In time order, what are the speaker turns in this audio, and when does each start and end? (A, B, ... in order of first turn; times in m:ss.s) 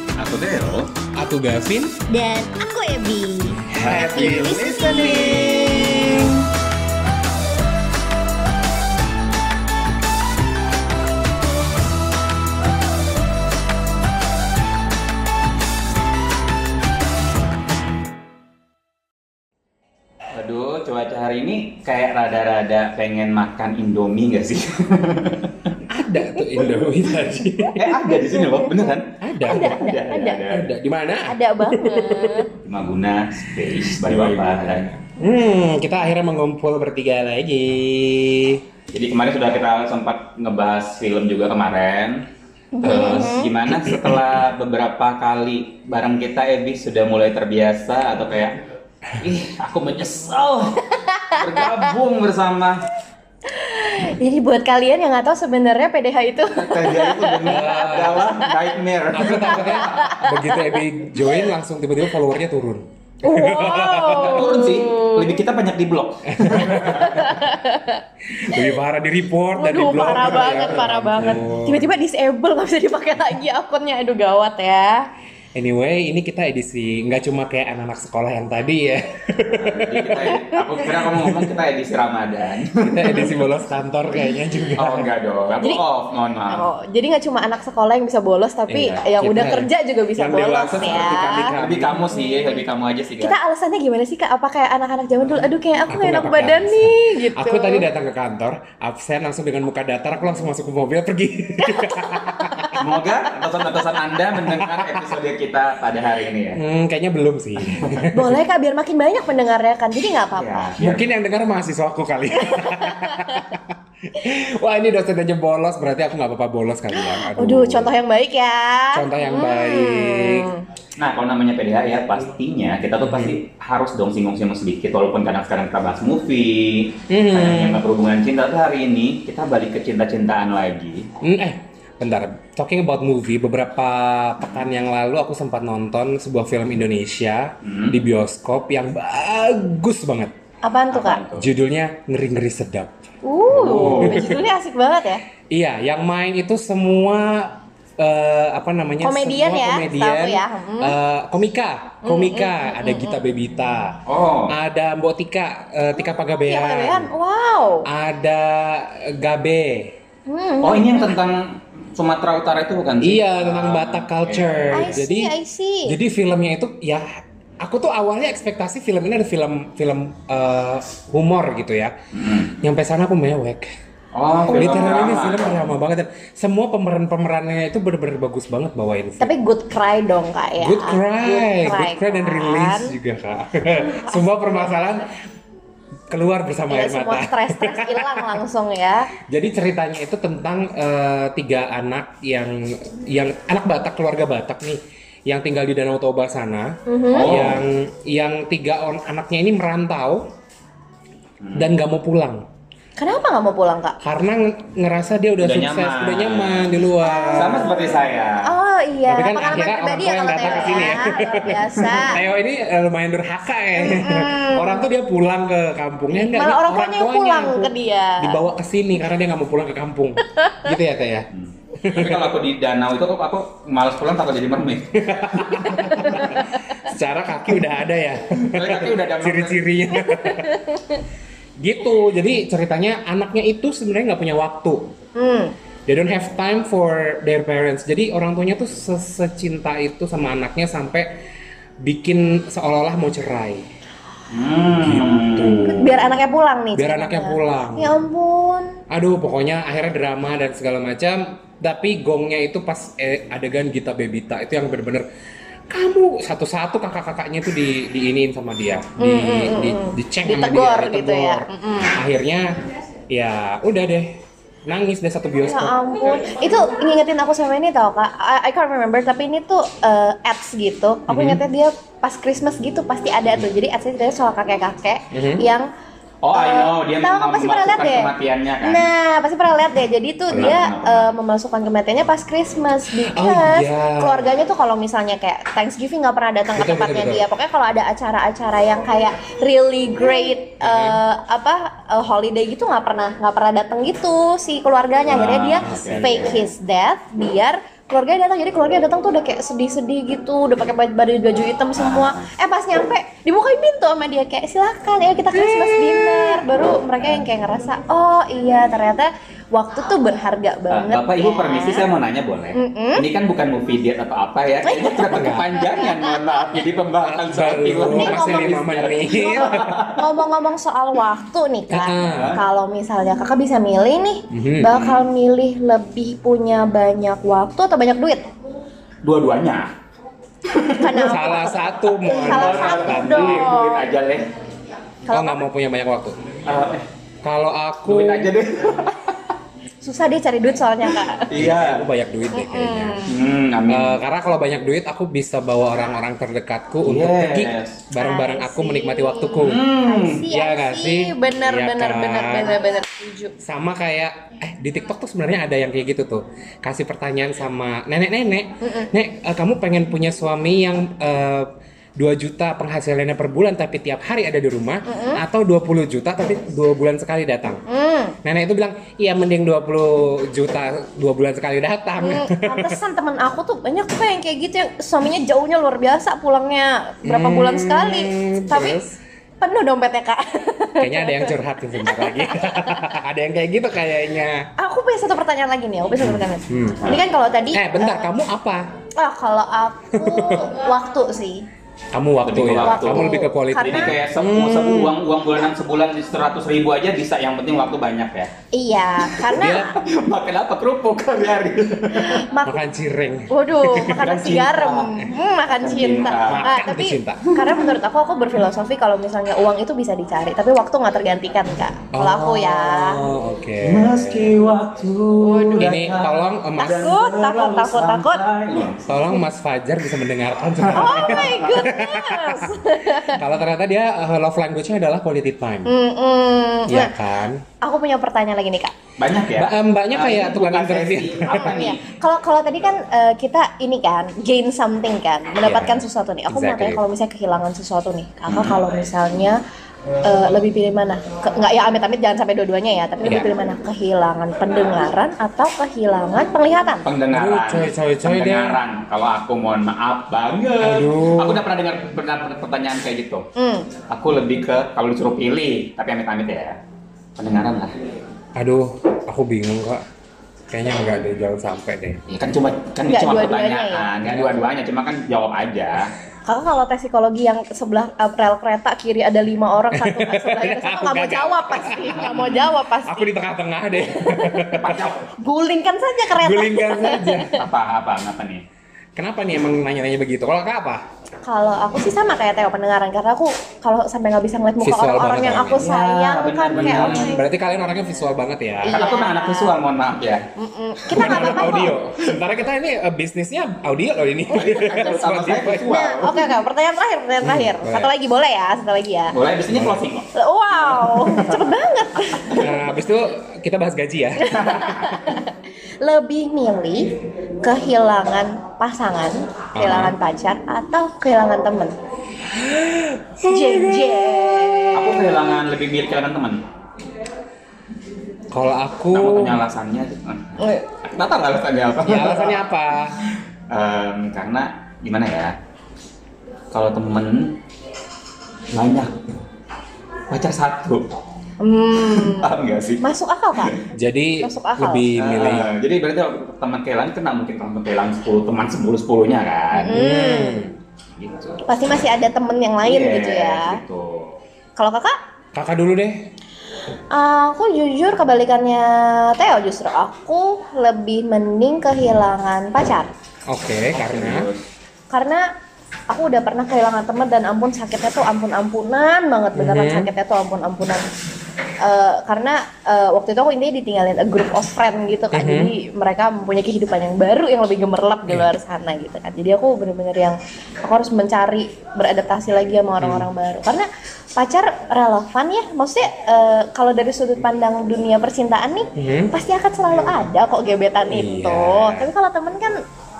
0:00.2-0:00.9 A
0:01.2-0:02.0 B
0:02.1-0:06.0 C
0:03.7-0:06.4 B
0:03.8-0:05.8 A
0:20.3-0:25.8 A
0:25.9-0:27.9 B
0:26.4-0:26.8 C
0:27.7-0:30.7 A
0:28.0-0:28.9 C
0:29.2-0:29.8 B
0:29.4-0:30.4 C
0:30.5-0:32.5 B
0:31.2-0:32.5 C
0:32.6-0:34.9 A
0:34.0-0:38.6 B
0:38.9-0:42.3 A
0:42.8-0:43.5 C
0:42.8-0:48.6 A
0:43.7-0:44.2 B
0:49.2-0:52.8 A
0:50.9-0:51.9 C
0:53.4-0:57.6 C
0:56.5-1:00.1 A
0:57.5-0:58.2 B
0:59.1-1:04.4 B
0:59.2-1:01.5 C
1:03.2-1:05.4 C
1:04.2-1:07.2 A
1:06.3-1:07.4 B
1:06.7-1:08.7 C
1:08.3-1:11.9 B
1:09.5-1:15.1 C
1:15.5-1:20.3 B
1:19.5-1:23.4 A
1:20.3-1:20.8 C
1:21.0-1:21.5 B
1:22.8-1:25.1 B
1:24.2-1:24.4 C
1:24.8-1:26.6 A
1:26.5-1:31.5 C
1:28.7-1:32.1 B
1:30.8-1:31.0 A
1:31.6-1:33.4 A
1:32.1-1:32.5 C
1:33.2-1:37.9 C
1:35.9-1:42.8 B
1:41.6-1:42.9 C
1:42.8-1:46.6 A
1:44.3-1:45.1 B
1:46.5-1:48.4 B
1:48.1-1:50.7 C
1:50.3-1:51.0 A
1:50.8-1:57.9 B
1:52.4-1:53.5 C
1:56.9-2:00.6 C
1:58.9-2:00.5 B
2:01.0-2:11.1 A
2:03.0-2:03.4 B
2:07.1-2:07.8 B
2:11.2-2:20.3 B
2:17.6-2:18.0 A
2:20.6-2:21.2 C
2:20.9-2:21.5 A
2:21.3-2:23.0 B
2:23.2-2:25.2 C
2:23.5-2:24.4 B
2:23.5-2:24.3 A
2:25.5-2:37.1 B
2:29.0-2:31.0 C
2:32.0-2:33.2 C
2:34.1-2:34.6 A
2:36.2-2:37.9 C
2:37.9-2:40.0 B
2:40.3-2:41.1 C
2:40.6-2:45.0 A
2:43.0-2:45.3 B
2:44.7-2:46.0 C
2:45.8-2:52.0 B
2:52.1-2:52.6 A
2:52.6-2:53.7 B
2:54.1-2:55.7 A
2:54.5-2:55.1 C
2:54.5-2:59.3 B
2:59.2-3:02.9 C
3:00.6-3:05.1 B
3:03.8-3:04.2 C
3:06.1-3:08.3 B
3:06.7-3:09.1 C
3:09.3-3:20.3 B
3:16.9-3:17.3 C
3:17.1-3:17.6 A
3:21.4-3:21.8 A
3:21.6-3:22.4 B
3:23.0-3:24.0 C
3:24.0-3:27.7 B
3:25.4-3:26.7 A
3:27.0-3:27.8 C
3:27.3-3:28.5 A
3:28.4-3:32.2 C
3:29.1-3:41.3 B
3:30.4-3:32.1 A
3:33.8-3:34.9 C
3:36.1-3:38.5 C
3:40.4-3:40.6 C
3:41.3-3:46.4 A
3:41.8-3:42.3 B
3:45.0-3:50.5 B
3:45.8-3:46.5 C
3:48.4-3:49.6 A
3:49.9-3:51.0 C
3:51.6-3:54.9 B
3:55.2-3:55.5 C
3:55.9-4:01.2 B
4:01.8-4:03.7 B
4:04.3-4:06.0 A
4:04.8-4:05.9 B
4:05.5-4:08.8 C
4:06.8-4:07.9 B
4:08.9-4:15.1 B
4:15.7-4:22.5 B
4:19.0-4:22.0 C
4:23.1-4:25.8 B
4:25.4-4:35.7 C
4:31.1-4:31.4 B
4:35.1-4:35.4 B
4:36.2-4:38.9 A
4:36.3-4:38.1 C
4:38.6-5:11.8 C
4:40.3-4:41.1 A
4:43.0-4:44.3 B
4:46.5-4:47.2 B
4:50.6-4:51.0 B
4:55.1-4:56.4 A
4:55.6-4:56.4 B
5:01.8-5:02.3 A
5:05.3-5:06.4 B
5:10.7-5:20.1 A
5:12.5-5:13.1 C
5:14.6-5:16.6 C
5:15.0-5:15.5 B
5:17.0-5:19.9 B
5:17.9-5:18.6 C
5:19.3-5:28.3 C
5:21.7-5:22.4 B
5:22.0-5:22.4 A
5:24.3-5:24.8 B
5:24.7-5:25.0 A
5:29.0-5:29.7 A
5:30.4-5:31.0 A
5:30.8-5:33.8 C
5:30.9-5:33.5 B
5:32.0-5:34.3 A
5:35.1-5:35.4 C
5:35.1-5:36.3 B
5:36.4-5:36.9 A
5:37.2-5:38.3 B
5:37.8-5:39.3 A
5:39.8-5:41.3 C
5:41.0-5:41.8 A
5:41.3-5:43.0 B
5:42.3-5:43.1 C
5:43.1-5:44.0 A
5:43.7-5:49.6 B
5:46.8-5:47.8 A
5:48.0-5:53.3 C
5:49.4-5:50.2 A
5:50.3-5:52.6 B
5:53.4-6:07.6 B
6:04.8-6:05.2 C
6:07.7-6:08.2 C
6:08.2-6:12.8 B
6:12.0-6:18.8 C
6:17.0-6:19.0 B
6:19.4-6:23.0 C
6:20.8-6:24.5 B
6:24.6-6:28.1 C
6:26.0-6:27.0 B
6:27.5-6:28.7 B
6:29.0-6:31.4 C
6:29.9-6:30.5 B
6:31.9-6:34.9 B
6:32.2-6:38.3 A
6:32.6-6:33.9 C
6:38.5-6:39.7 C
6:39.1-6:42.2 A
6:39.4-6:39.8 B
6:41.9-6:42.6 C
6:42.4-6:44.1 B
6:43.3-6:53.0 C
6:43.9-6:45.0 A
6:45.6-6:46.5 A
6:46.2-6:47.3 B
6:51.9-6:54.5 B
6:53.6-6:58.9 A
6:55.2-6:55.8 C
6:55.6-6:56.9 B
6:56.6-6:58.6 C
6:58.9-7:05.7 B
7:00.6-7:01.4 A
7:00.7-7:03.2 C
7:05.6-7:06.9 C
7:06.7-7:07.4 B
7:07.6-7:08.7 C
7:09.0-7:11.8 A
7:09.3-7:11.5 B
7:11.3-7:19.4 C
7:15.4-7:16.8 B
7:18.3-7:18.8 A
7:20.0-7:26.9 C
7:26.8-7:33.3 A
7:27.1-7:28.6 B
7:30.6-7:31.4 B
7:33.4-7:33.7 C
7:33.9-7:36.6 A
7:37.2-7:37.8 A
7:38.4-7:39.8 B
7:40.5-7:42.0 B
7:42.1-7:45.9 A
7:42.9-7:43.9 C
7:44.0-7:44.3 B
7:46.2-7:53.1 C
7:49.7-7:55.0 B
7:53.8-7:54.6 C
7:54.5-7:55.1 A
7:55.1-7:57.4 C
7:56.1-7:57.3 B
7:57.2-7:58.4 A
7:58.9-8:00.8 B
8:01.2-8:07.2 C
8:04.6-8:05.7 B
8:05.6-8:07.2 A
8:06.5-8:08.8 B
8:08.6-8:09.5 C
8:08.7-8:10.2 A
8:10.4-8:11.8 C
8:10.9-8:15.7 B
8:11.0-8:11.6 A
8:14.3-8:16.2 A
8:15.7-8:19.1 C
8:17.2-8:17.9 B
8:19.1-8:20.1 A
8:19.5-8:19.8 B
8:20.1-8:22.5 C
8:21.1-8:21.4 A
8:22.1-8:22.4 A
8:22.4-8:25.0 B
8:24.2-8:31.7 C
8:24.3-8:24.9 A
8:29.6-8:30.0 B
8:32.3-8:34.7 B
8:33.2-8:35.2 C
8:34.7-8:36.4 A
8:38.3-8:39.4 B
8:38.9-8:42.4 A
8:40.4-8:40.7 C
8:41.8-8:43.0 B
8:43.5-8:45.4 A
8:46.5-8:47.4 A
8:48.5-8:48.9 A
8:50.1-8:50.9 A
8:51.4-8:53.6 C
8:51.8-8:52.8 A
8:53.7-8:55.5 B
8:54.2-8:54.8 C
8:55.0-8:59.8 A
8:59.6-9:00.4 C
8:59.6-9:00.6 B
9:01.0-9:01.4 A
9:01.5-9:03.6 C
9:02.6-9:04.2 A
9:04.6-9:05.0 C
9:05.3-9:06.0 B
9:06.9-9:12.9 C
9:13.3-9:14.3 B
9:13.7-9:14.5 A
9:14.9-9:15.2 C
9:15.9-9:20.9 C
9:19.4-9:19.9 B
9:21.6-9:42.6 C
9:25.1-9:25.5 B
9:32.8-9:33.1 B
9:38.8-9:39.1 B
9:40.9-9:41.9 B